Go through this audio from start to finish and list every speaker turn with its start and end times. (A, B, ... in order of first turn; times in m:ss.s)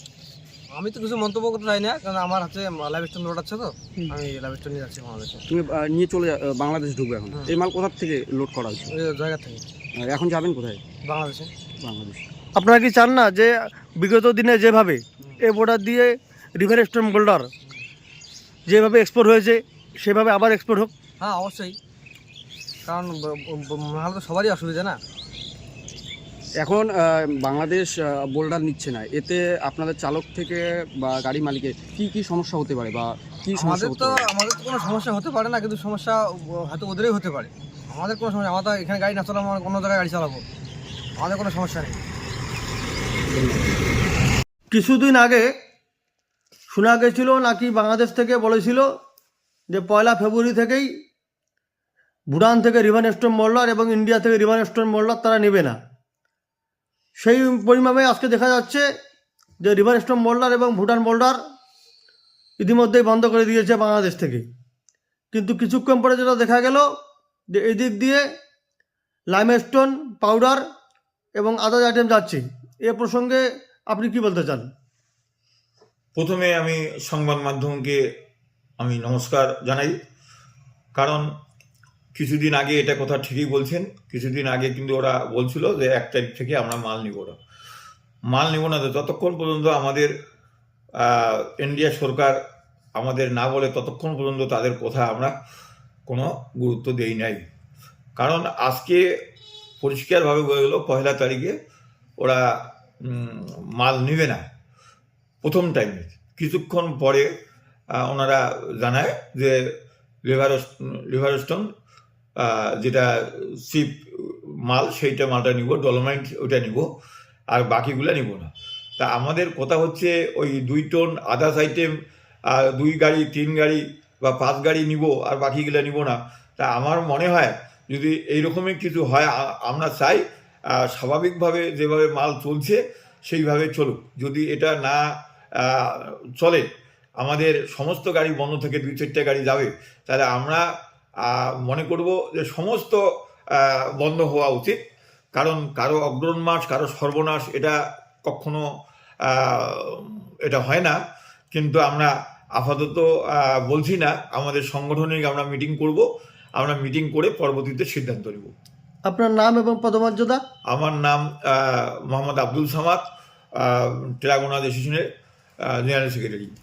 0:00.7-0:05.4 A
0:05.5-0:09.0 B
0:08.9-0:09.6 A
0:10.0-0:10.8 B
0:11.1-0:11.6 A
0:11.7-0:12.3 B
0:12.6-0:17.5 C
0:18.7-0:20.9 C
0:21.2-0:21.8 A
0:22.9-0:25.0 A
0:26.6-0:34.3 B
0:33.6-0:40.4 A
0:41.2-0:42.0 A
0:43.3-0:43.6 B
0:44.7-0:45.5 C
0:46.7-0:48.9 C
0:49.7-0:50.9 C
0:52.3-0:55.8 C
0:57.2-0:58.9 C
0:59.6-1:01.4 C
1:02.6-1:04.4 C
1:05.3-1:06.9 C
1:07.5-1:08.2 C
1:09.3-1:10.6 C
1:11.4-1:14.7 C
1:16.2-1:18.0 D
1:18.8-1:20.0 D
1:21.0-1:21.3 D
1:22.2-1:27.4 D
1:28.3-1:30.1 D
1:31.0-1:32.4 D
1:33.0-1:35.3 D
1:36.1-1:37.5 D
1:38.2-1:39.0 D
1:39.8-1:41.5 D
1:43.0-1:44.5 D
1:45.4-1:47.3 D
1:48.0-1:49.6 D
1:50.3-1:51.7 D
1:52.4-1:53.1 D
1:53.6-1:56.9 D
1:57.5-2:01.9 D
2:02.5-2:10.2 D
2:10.8-2:15.0 D
2:15.6-2:16.6 D
2:17.2-2:20.6 D
2:21.3-2:23.0 D
2:23.6-2:24.8 D
2:25.4-2:27.8 D
2:28.3-2:28.6 D
2:29.3-2:31.0 D
2:31.5-2:36.1 D
2:36.6-2:38.5 D
2:39.1-2:40.4 C
2:40.7-2:43.0 D
2:43.6-2:45.0 D
2:45.7-2:46.5 D